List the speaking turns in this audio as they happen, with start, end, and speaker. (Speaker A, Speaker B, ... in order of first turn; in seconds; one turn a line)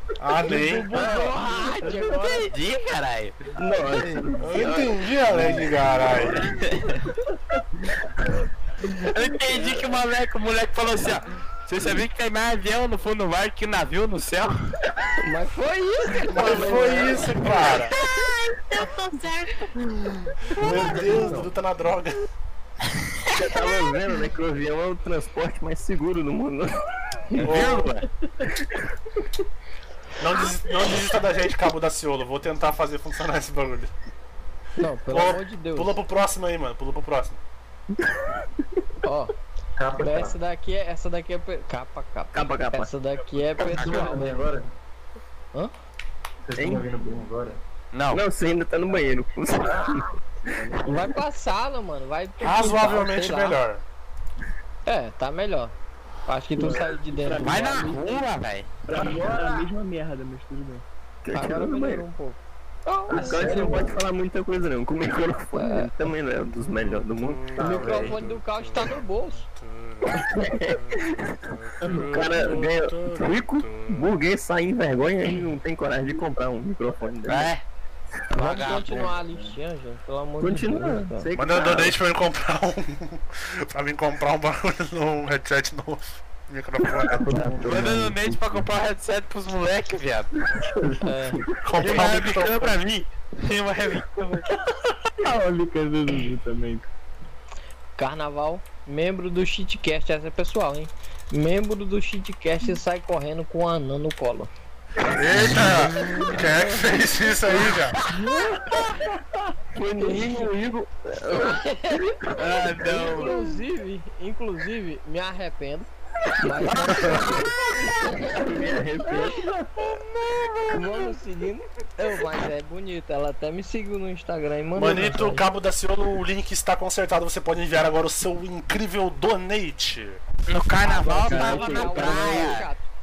Speaker A: 0.2-0.9
Speaker B: 0.4-2.5
Speaker C: 1.0-1.3
Speaker C: 2.1-3.4
Speaker D: 3.5-6.4
Speaker A: 4.4-6.4
Speaker C: 6.6-7.0
Speaker C: 8.9-14.5
Speaker B: 15.2-17.3
Speaker A: 16.3-17.9
Speaker D: 16.4-17.1
Speaker A: 20.6-22.2
Speaker E: 20.6-21.5
Speaker D: 23.3-26.7
Speaker C: 27.4-28.1
Speaker A: 27.4-28.0
Speaker A: 30.2-33.9
Speaker B: 34.8-35.9
Speaker A: 35.1-37.4
Speaker B: 39.0-39.3
Speaker E: 39.8-40.4
Speaker B: 40.0-44.3
Speaker D: 42.3-42.9
Speaker E: 43.6-44.7
Speaker C: 43.7-44.1
Speaker E: 46.5-47.6
Speaker D: 46.6-46.9
Speaker C: 47.9-48.2
Speaker D: 48.1-50.1
Speaker E: 49.7-49.9
Speaker F: 50.5-51.1
Speaker B: 50.8-53.6
Speaker A: 52.4-53.8
Speaker B: 54.9-55.7
Speaker B: 56.3-57.8
Speaker F: 56.5-58.3
Speaker C: 57.4-58.7
Speaker F: 58.9-60.8
Speaker E: 59.0-59.7
Speaker D: 61.2-62.0
Speaker B: 61.3-63.9
Speaker D: 63.1-68.2
Speaker E: 63.2-63.9
Speaker F: 63.3-63.8
Speaker B: 65.5-65.9
Speaker A: 66.7-74.1
Speaker B: 67.6-69.5
Speaker D: 70.1-71.3
Speaker D: 71.8-77.5
Speaker C: 77.3-77.6
Speaker B: 78.3-81.3
Speaker C: 78.3-79.2
Speaker F: 79.2-79.5
Speaker D: 80.4-82.0
Speaker A: 81.4-87.2
Speaker D: 86.9-88.1
Speaker E: 87.2-87.8
Speaker F: 87.3-88.6
Speaker C: 87.6-90.3
Speaker B: 91.0-91.4
Speaker A: 91.6-92.8
Speaker C: 91.8-94.5
Speaker F: 95.2-96.9
Speaker B: 98.0-104.5
Speaker A: 105.1-108.0
Speaker D: 108.2-108.8
Speaker D: 109.7-113.3
Speaker B: 110.0-110.5
Speaker B: 111.3-112.0
Speaker C: 112.3-113.4
Speaker B: 112.8-115.9
Speaker B: 116.4-118.4
Speaker D: 116.5-117.1
Speaker D: 118.3-119.5
Speaker B: 119.0-119.3
Speaker B: 120.6-125.4
Speaker A: 124.8-130.2
Speaker C: 130.5-132.7
Speaker B: 130.8-132.9
Speaker F: 131.0-132.6